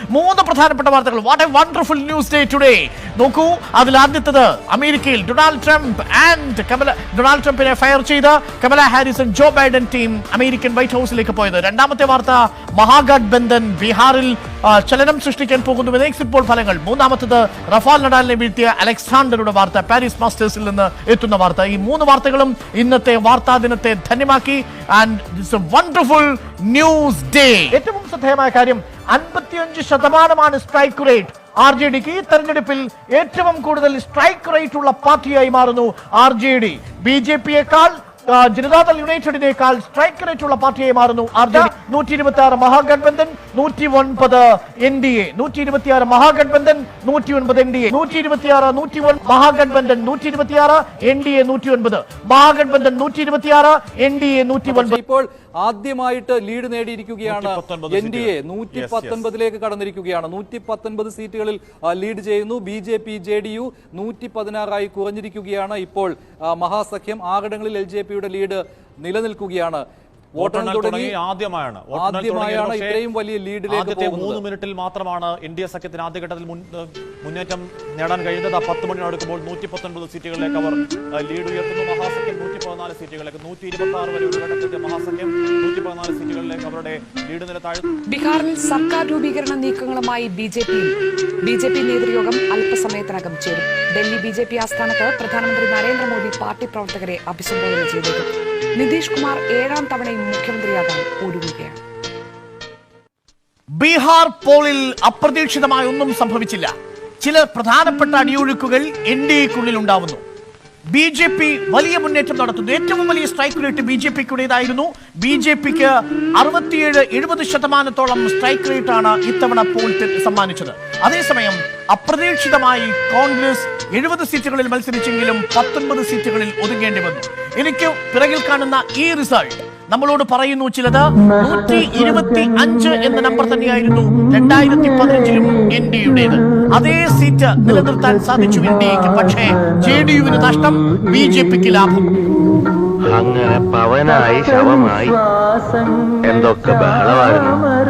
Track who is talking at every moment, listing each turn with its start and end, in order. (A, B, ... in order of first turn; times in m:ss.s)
0:00.1-0:55.0 A
0:54.6-1:09.8 B
0:57.3-0:59.2 C
1:10.3-1:11.2 B
1:10.4-1:13.0 C
1:11.9-1:14.4 B
1:13.7-1:27.8 C
1:28.1-1:41.8 D
1:43.8-1:50.2 A
1:50.9-2:22.1 A
2:23.1-2:25.2 E
2:26.2-2:27.7 E